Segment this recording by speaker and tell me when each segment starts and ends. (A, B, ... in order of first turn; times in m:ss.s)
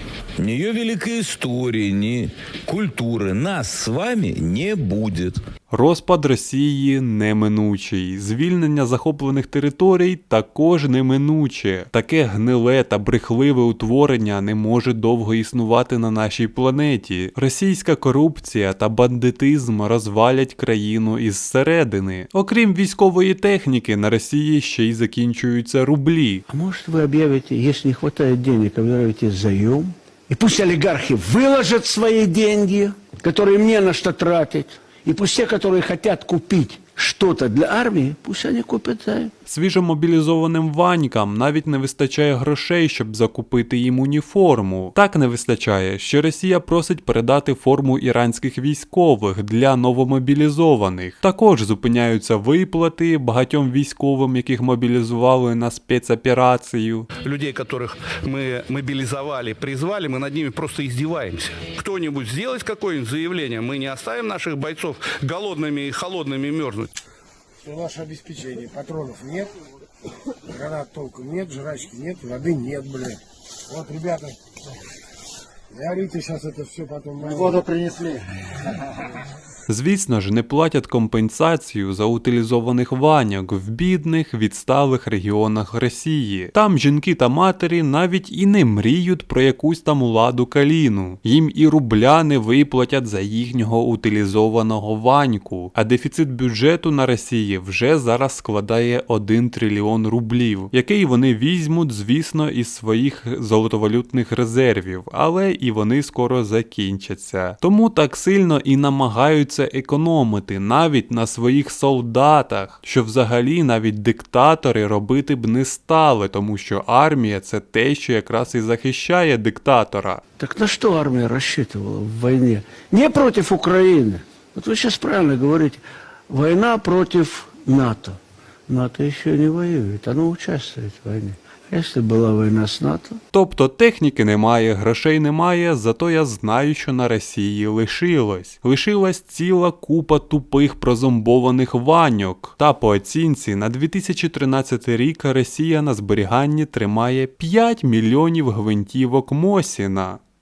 0:00.4-0:05.4 A
0:05.7-0:26.4 B
0:26.5-0:39.3 C
0:39.5-0:57.1 B
0:57.2-1:06.9 D
1:07.6-1:09.5 E
1:10.5-1:14.4 E
1:15.7-1:17.6 E
1:19.7-2:00.2 B
2:00.4-2:13.2 C
2:13.3-2:30.2 B